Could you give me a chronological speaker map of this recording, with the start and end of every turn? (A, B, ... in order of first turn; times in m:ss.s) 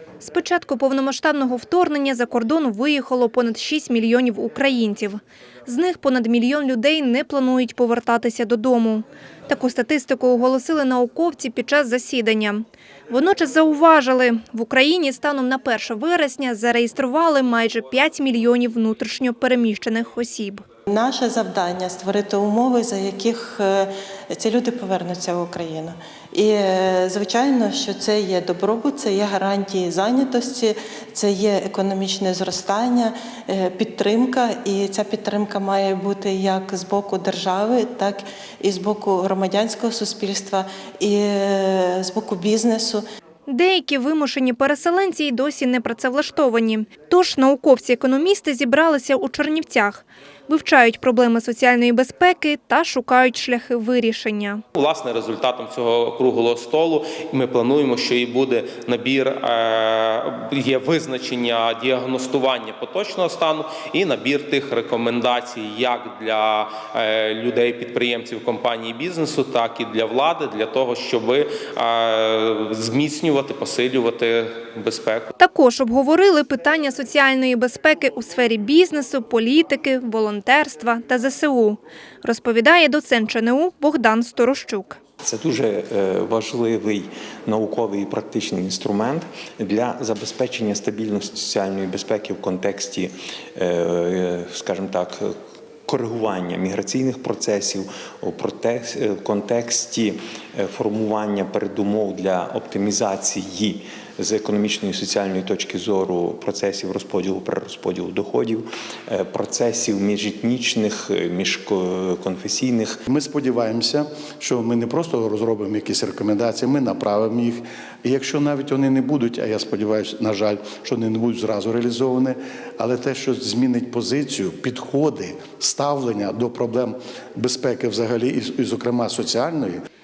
0:00.2-0:20.6 A
0:20.9-0:43.0 B
0:43.5-0:54.6 A
0:54.8-1:15.3 C
1:15.4-1:25.0 A
1:25.2-1:35.3 D
1:35.9-1:53.0 D
1:53.1-2:09.8 E